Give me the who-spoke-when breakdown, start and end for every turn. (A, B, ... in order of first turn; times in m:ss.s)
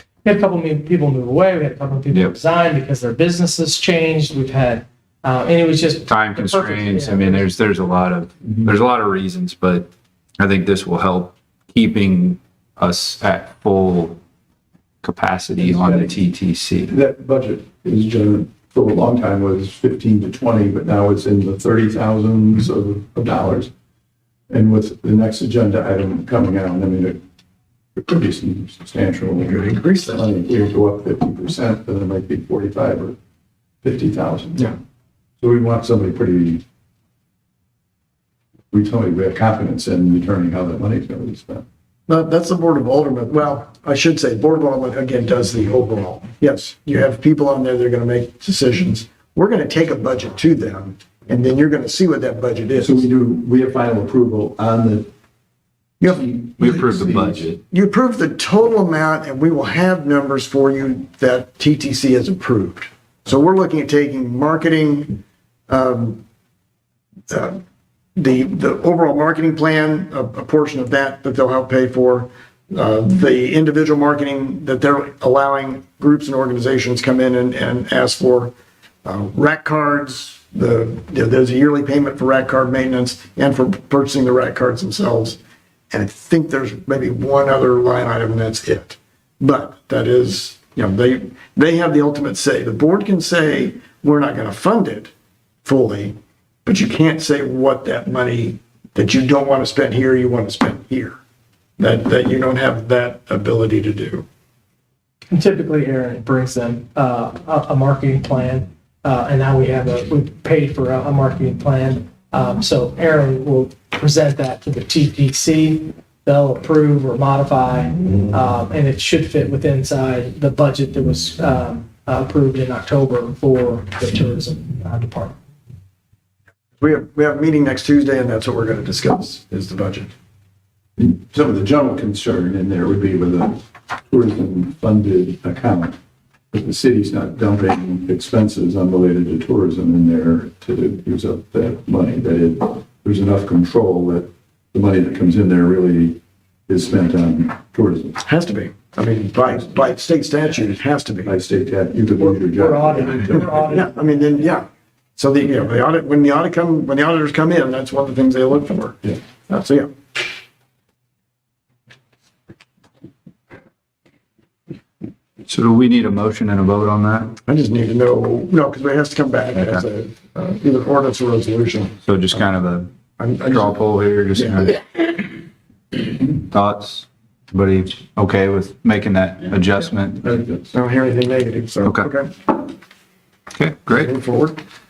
0:00.2-0:07.5 A
0:02.1-0:02.4 B
0:06.1-0:14.2 B
0:15.0-0:16.9 B
0:15.6-0:16.2 C
0:16.9-0:23.7 C
0:24.5-0:27.2 C
0:28.0-0:33.2 C
0:29.4-0:30.1 D
0:33.8-0:34.8 C
0:35.4-0:36.6 C
0:38.7-0:41.6 C
0:42.1-0:53.0 D
0:52.8-0:55.1 C
0:56.1-0:57.4 C
0:56.6-0:57.6 B
0:57.7-1:06.2 D
1:07.3-1:07.6 D
1:08.2-1:25.4 D
1:25.9-1:35.1 D
1:35.6-1:41.2 D
1:41.8-1:44.3 D
1:45.3-2:05.4 A
2:06.8-2:10.1 D
2:11.0-2:16.0 C
2:16.5-2:28.2 C
2:28.2-2:31.3 D
2:31.2-2:33.6 C
2:32.2-2:34.4 A
2:33.4-2:39.9 D
2:45.5-2:47.3 B
2:47.4-2:52.0 D
2:49.5-2:49.8 B
2:52.0-2:52.9 B
2:53.2-2:53.8 D
2:53.5-2:54.8 B
2:54.4-2:54.6 D
2:56.3-3:00.2 B
3:00.2-3:00.7 C
3:00.7-3:02.3 D
3:03.6-3:04.1 B
3:03.9-3:04.6 D